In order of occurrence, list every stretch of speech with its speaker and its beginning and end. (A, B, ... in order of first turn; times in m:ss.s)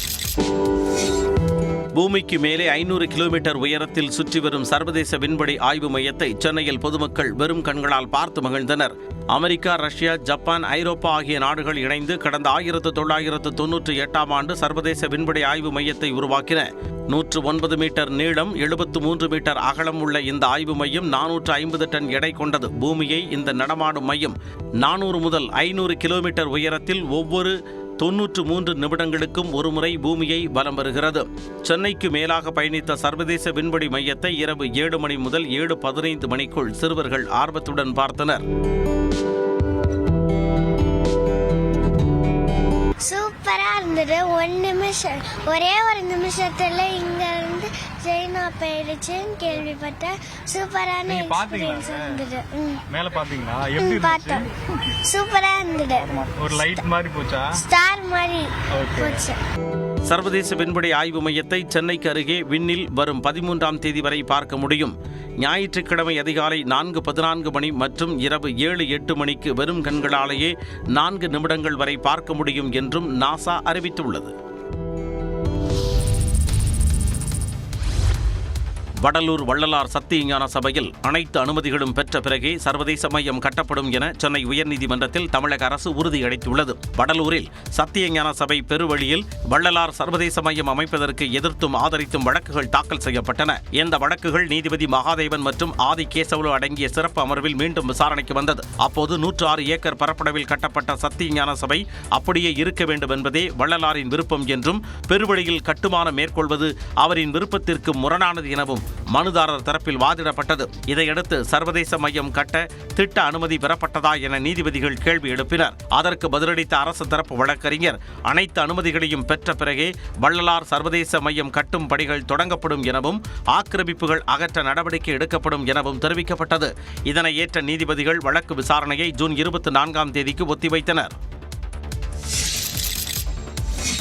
0:02.0-0:38.4 A
0:43.0-0:52.8 B
0:51.1-0:52.1 C
0:52.9-0:54.4 C
0:53.8-0:54.4 B
0:55.0-0:56.8 B
0:56.1-0:57.6 C
0:57.6-0:59.4 B
0:58.8-0:59.2 C
1:00.1-1:14.3 A
1:19.0-2:11.2 A